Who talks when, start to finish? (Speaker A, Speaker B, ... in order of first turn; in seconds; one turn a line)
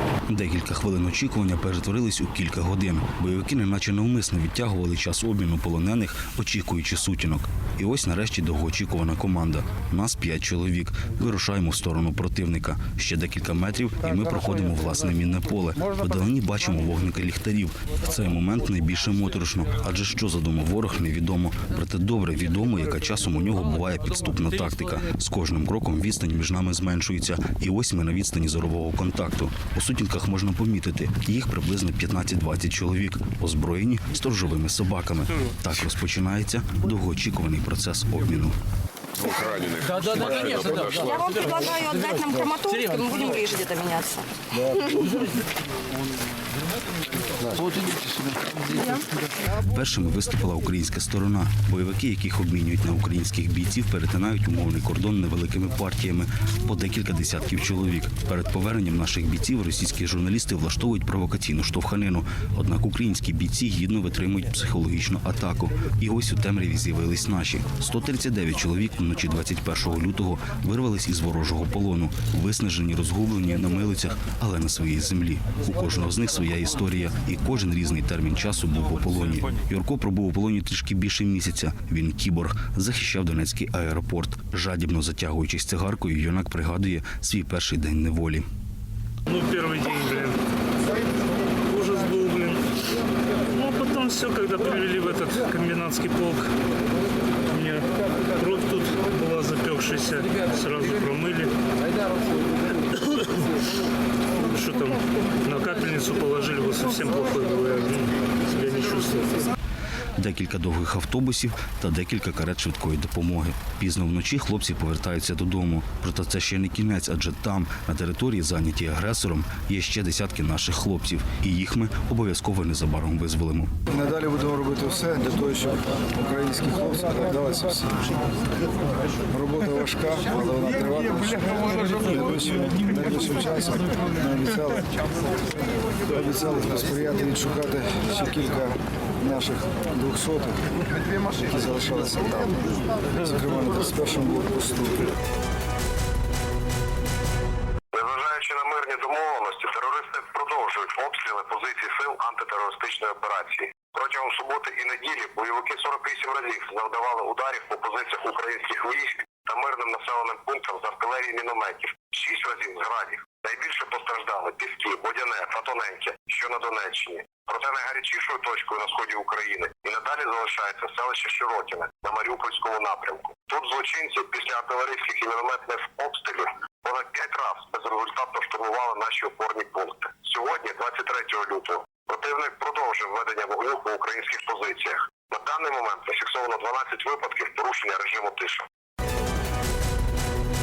Speaker A: 0.3-38.5
Speaker B: 39.2-41.2
Speaker C: 41.0-44.3
Speaker A: 49.6-88.5
Speaker D: 89.3-90.3
Speaker D: 91.7-92.6
Speaker D: 93.5-96.5
Speaker D: 97.5-97.8
Speaker D: 98.4-101.5
Speaker D: 104.5-109.4
Speaker A: 110.2-123.7
Speaker E: 123.9-127.8
Speaker E: 129.3-134.8
Speaker E: 136.2-138.7
Speaker E: 139.2-140.6
Speaker E: 141.4-142.6
Speaker E: 143.2-145.0
Speaker F: 147.9-188.7